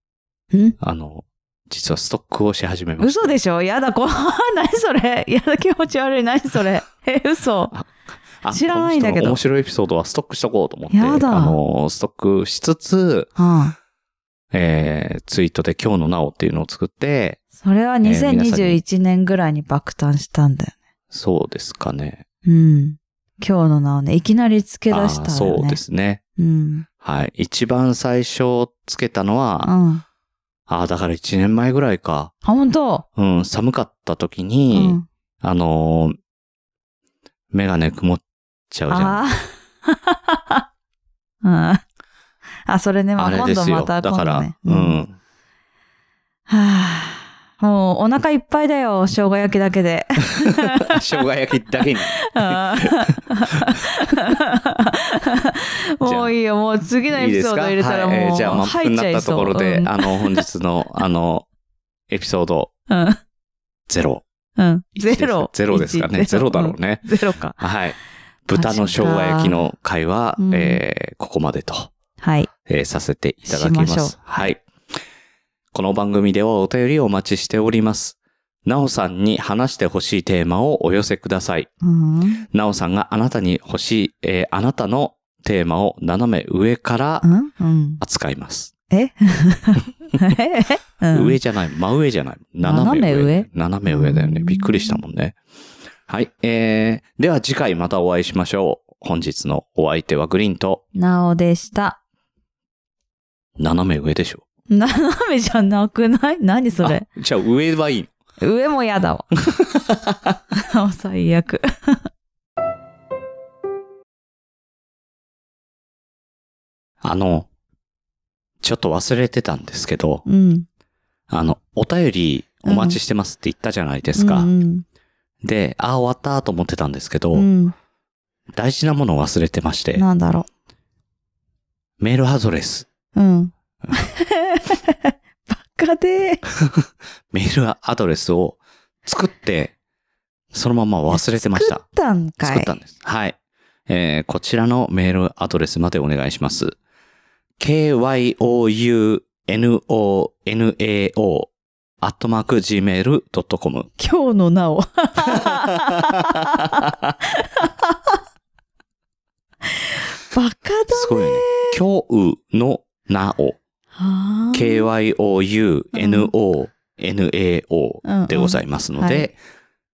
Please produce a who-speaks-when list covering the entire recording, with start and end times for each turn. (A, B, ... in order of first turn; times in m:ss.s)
0:00.5-0:00.8 A
0:00.8-0:03.4 B
0:03.0-0:07.7 A
0:08.4-0:13.3 B
0:08.5-0:09.4 A
0:10.9-0:11.6 A
0:13.4-0:13.8 A
0:14.5-0:17.4 B
0:17.6-0:20.8 A
0:18.0-0:18.8 B
0:21.1-0:22.2 B
0:22.4-0:25.8 A
0:24.9-0:26.2 B
0:26.4-0:26.9 A
0:27.0-0:29.7 B
0:29.6-0:30.0 A
0:30.7-0:32.3 B
0:32.4-0:33.0 A
0:33.2-0:36.2 B
0:34.7-0:35.0 A
0:37.5-0:39.3 B
0:38.9-0:40.6 A
0:41.4-0:41.8 A
0:42.7-0:45.0 A
0:43.2-0:45.2 B
0:46.5-0:51.0 A
0:50.9-0:53.0 B
0:52.1-1:00.4 A
0:56.0-0:56.3 B
0:57.1-1:01.5 B
1:02.1-1:02.7 B
1:02.9-1:03.2 A
1:03.9-1:04.2 B
1:04.6-1:07.6 A
1:05.0-1:11.9 B
1:08.6-1:09.6 A
1:10.4-1:10.8 A
1:12.2-1:12.5 A
1:12.7-1:14.6 B
1:13.4-1:14.5 A
1:15.7-1:21.7 B
1:21.8-1:22.4 A
1:22.5-1:27.3 B
1:27.2-1:28.0 A
1:28.0-1:28.7 B
1:28.9-1:31.4 A
1:31.1-1:35.4 B
1:32.6-1:35.0 A
1:36.1-1:40.8 B
1:41.0-1:42.0 A
1:43.6-1:44.4 B
1:44.7-1:47.0 A
1:46.8-1:48.1 B
1:48.4-1:49.3 A
1:49.7-1:50.1 B
1:50.6-1:52.0 A
1:57.0-1:57.5 B
1:58.6-2:00.2 B
2:00.3-2:00.7 A
2:01.3-2:04.5 B
2:02.6-2:03.0 A
2:04.2-2:04.8 A
2:05.4-2:07.5 B
2:07.3-2:07.7 A
2:08.5-2:10.0 B
2:10.0-2:10.5 A
2:12.0-2:12.9 B
2:13.2-2:16.4 A
2:17.3-2:19.7 B
2:20.5-2:21.8 B
2:21.1-2:22.8 A
2:22.4-2:23.4 B
2:23.9-2:26.8 B
2:27.6-2:33.9 B
2:34.0-2:36.9 A
2:37.6-2:38.2 A
2:40.0-2:41.8 A
2:40.9-2:43.6 B
2:44.0-2:44.9 A
2:44.5-2:49.4 B
2:45.9-2:46.3 A
2:48.0-2:49.3 A